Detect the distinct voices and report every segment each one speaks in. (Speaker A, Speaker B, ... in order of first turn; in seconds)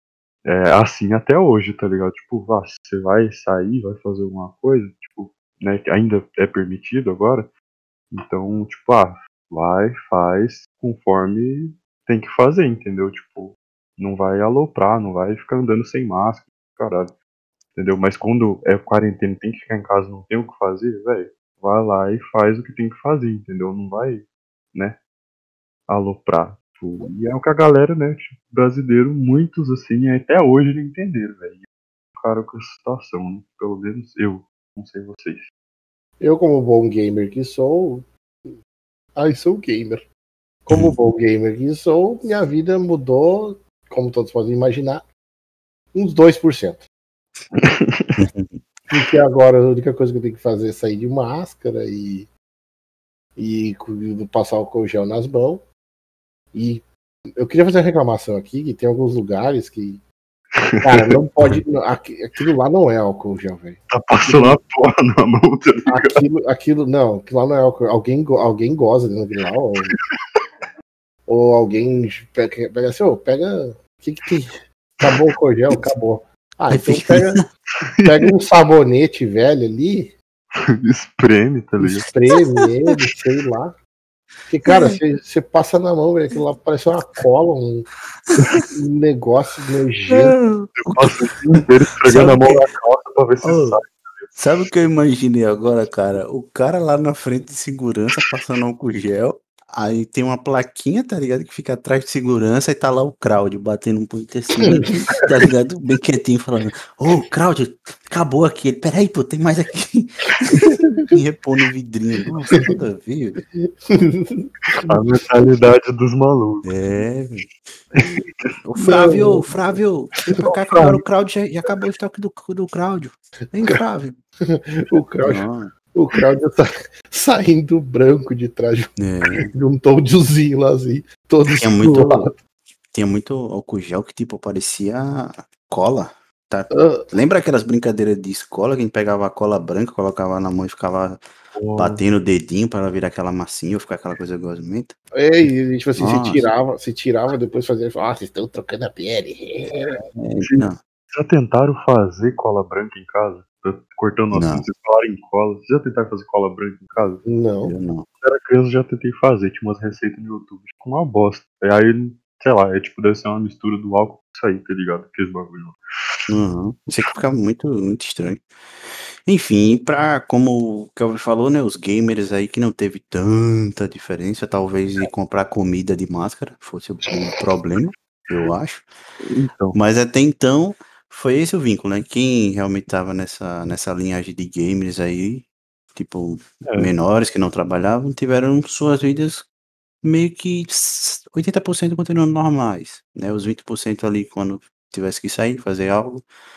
Speaker A: 0.5-7.5, 8.1-17.2, 17.8-25.0, 25.9-31.6, 32.2-35.5, 47.5-48.2, 60.6-60.8, 63.9-66.2, 69.9-70.5, 78.0-78.3, 80.6-82.1, 90.8-94.4, 114.9-116.7, 118.0-118.5, 120.4-121.0, 141.6-142.0, 150.4-157.3, 158.2-166.2, 179.2-179.8
Speaker B: 36.2-38.5, 39.1-40.1, 40.6-45.1, 45.9-46.9, 48.9-52.3, 53.4-55.7, 56.5-56.8, 57.4-60.0, 60.8-64.6, 65.9-70.0, 71.3-77.4, 78.0-80.2, 81.8-83.8, 84.5-87.9, 88.7-90.4, 104.7-105.2, 110.4-110.8, 113.6-115.1, 118.8-119.5, 124.5-132.3, 136.7-137.1, 145.2-150.0, 157.3-157.7
Speaker C: 40.7-41.0, 48.2-48.6, 76.7-77.4, 84.7-85.0, 88.4-88.7, 90.1-91.3, 92.1-92.7, 93.4-93.8, 94.4-113.4, 116.6-117.5, 118.6-124.2, 125.2-125.7, 129.0-129.5, 131.6-132.3, 132.9-141.2, 141.8-144.9, 146.0-146.5, 150.2-150.8, 154.3-154.7, 157.6-158.1, 166.3-178.9, 179.7-189.5, 190.0-196.2